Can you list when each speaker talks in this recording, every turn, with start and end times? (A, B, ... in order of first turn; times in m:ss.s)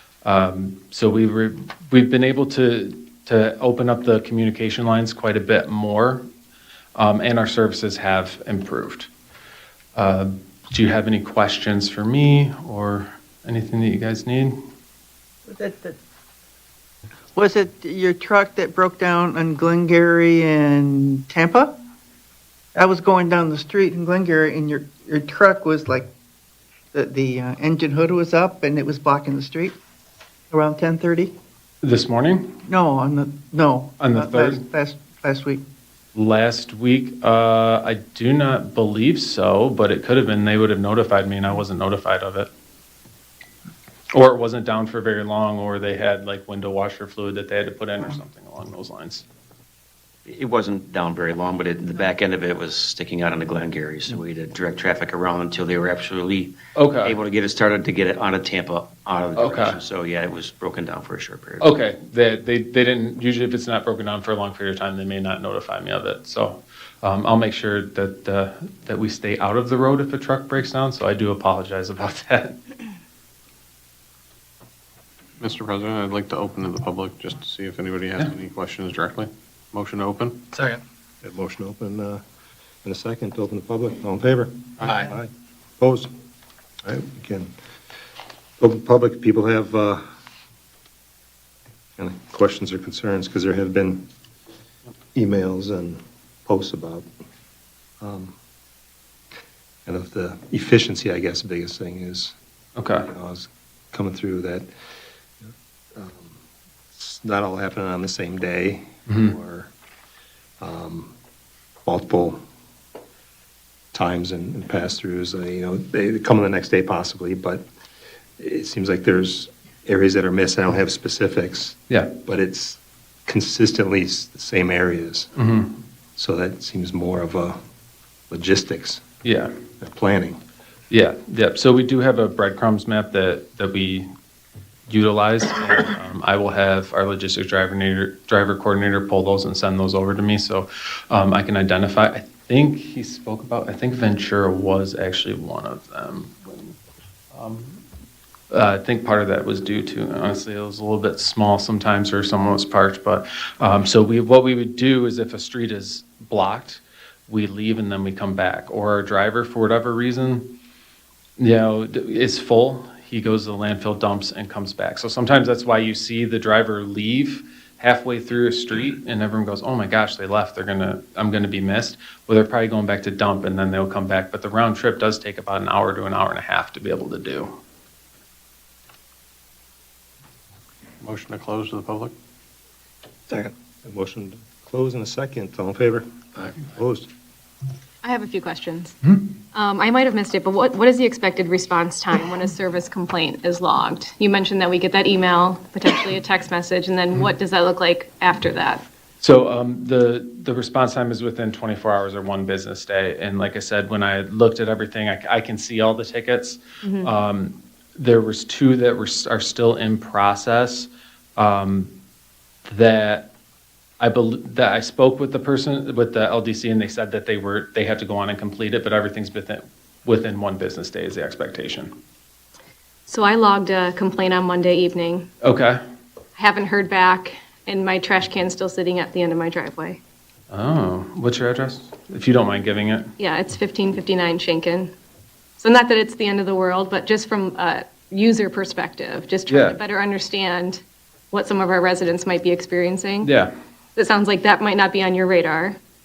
0:00.2-0:06.3 A
0:07.0-0:09.1 A
0:09.9-0:14.6 A
0:15.5-0:16.0 B
0:17.3-0:21.8 B
0:22.7-0:26.1 B
0:26.9-0:29.8 B
0:30.5-0:31.3 B
0:31.8-0:32.6 A
0:32.6-0:35.6 B
0:34.0-0:34.6 A
0:36.1-0:42.5 A
0:44.1-0:49.2 A
0:50.3-1:01.7 C
0:56.7-0:57.2 A
0:59.3-0:59.8 A
1:01.6-1:12.6 A
1:15.4-1:20.5 D
1:21.2-1:22.2 E
1:22.8-1:26.1 E
1:26.8-1:27.5 E
1:28.6-1:30.0 E
1:32.0-1:34.1 E
1:35.1-1:37.0 E
1:38.0-1:38.3 E
1:39.8-1:42.3 E
1:42.8-1:43.1 A
1:43.1-1:44.7 E
1:45.4-1:46.4 E
1:46.9-1:49.7 E
1:49.1-1:49.3 A
1:50.6-1:51.1 E
1:51.8-1:52.4 E
1:53.9-1:57.6 E
1:58.4-2:05.3 E
2:05.4-2:05.8 A
2:06.2-2:07.6 E
2:08.3-2:09.0 E
2:09.2-2:09.5 A
2:09.8-2:10.4 E
2:10.9-2:14.1 A
2:14.9-2:26.8 A
2:27.3-2:27.8 A
2:28.5-2:40.6 A
2:41.4-2:57.6 A
3:01.0-3:02.1 D
3:03.3-3:07.1 E
3:08.0-3:18.8 F
3:19.2-3:31.9 A
3:26.8-3:27.1 F
3:32.6-3:33.3 A
3:34.0-3:41.9 A
3:43.1-3:45.3 F
3:45.4-3:45.8 A
3:46.4-3:50.0 F
3:50.5-3:53.1 A
3:53.2-3:54.9 F
3:55.6-4:03.3 F
3:59.5-3:59.8 A
4:03.2-4:03.5 A
4:04.0-4:05.8 F